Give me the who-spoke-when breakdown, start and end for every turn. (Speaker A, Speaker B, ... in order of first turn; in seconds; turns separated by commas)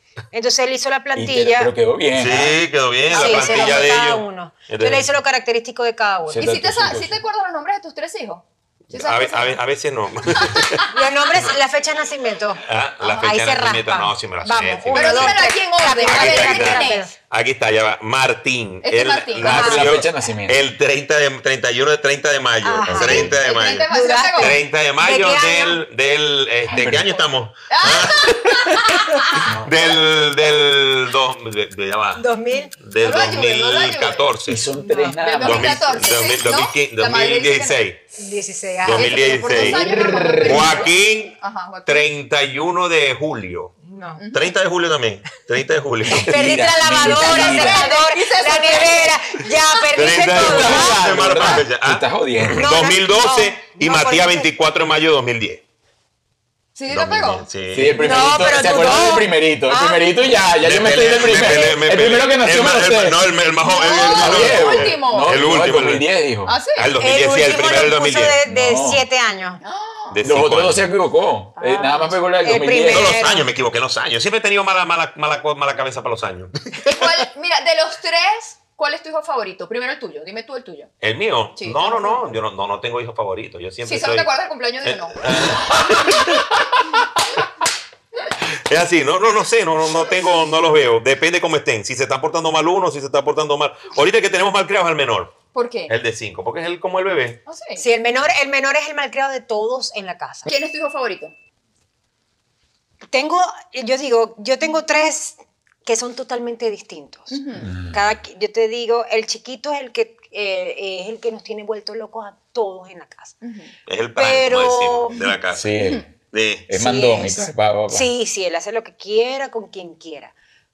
Speaker A: 0.3-1.7, Speaker B: 1.1-2.6, Speaker C: 2.1-5.1, Speaker A: 3.1-6.5, Speaker D: 3.1-3.9, Speaker B: 6.3-7.2, Speaker D: 6.4-9.6, Speaker C: 8.9-10.9, Speaker D: 10.3-10.9, Speaker A: 10.9-17.1, Speaker C: 12.6-15.5, Speaker D: 14.9-17.1, Speaker C: 16.0-23.9, Speaker D: 18.8-19.8, Speaker A: 19.4-20.0, Speaker B: 19.4-20.6, Speaker A: 22.6-25.8, Speaker B: 22.9-23.3, Speaker D: 23.2-24.6, Speaker C: 24.4-32.2, Speaker B: 26.6-27.1, Speaker D: 26.8-29.5, Speaker B: 29.4-29.7, Speaker A: 32.1-32.7, Speaker C: 32.8-34.7, Speaker D: 33.0-34.3, Speaker B: 34.5-36.2, Speaker A: 34.8-35.2, Speaker D: 35.2-37.8, Speaker C: 35.4-38.0, Speaker A: 38.2-39.8, Speaker C: 38.8-39.8, Speaker D: 38.8-42.1, Speaker B: 39.6-40.8, Speaker C: 40.4-43.7, Speaker A: 43.8-44.2, Speaker D: 44.2-44.5, Speaker C: 44.3-46.6, Speaker A: 46.0-51.6, Speaker B: 46.1-47.9, Speaker D: 47.0-49.5, Speaker C: 49.9-55.6, Speaker B: 50.3-52.7, Speaker A: 52.5-54.5, Speaker D: 56.8-57.4, Speaker C: 56.9-58.5, Speaker B: 57.7-63.3, Speaker A: 58.0-60.0, Speaker C: 60.6-66.0, Speaker D: 63.6-65.3, Speaker B: 64.1-66.6, Speaker D: 66.5-66.9, Speaker C: 66.7-68.4, Speaker A: 67.0-69.6, Speaker B: 68.5-69.0, Speaker D: 69.6-70.2, Speaker C: 70.1-70.8, Speaker B: 70.2-73.2, Speaker D: 71.6-72.1, Speaker A: 72.4-73.5, Speaker C: 72.9-77.2, Speaker D: 76.8-80.9, Speaker C: 81.0-84.3, Speaker D: 81.6-82.3, Speaker D: 83.8-85.2, Speaker C: 84.8-87.0, Speaker C: 88.6-97.4, Speaker D: 95.5-95.9, Speaker D: 97.5-97.8, Speaker A: 97.8-100.5, Speaker D: 100.5-101.3, Speaker A: 103.1-113.4, Speaker D: 107.3-107.7, Speaker B: 107.6-108.1, Speaker D: 113.4-113.7, Speaker C: 113.9-115.7, Speaker A: 114.2-115.2, Speaker B: 115.5-116.1, Speaker C: 116.3-116.7, Speaker B: 116.7-118.1, Speaker A: 116.7-120.3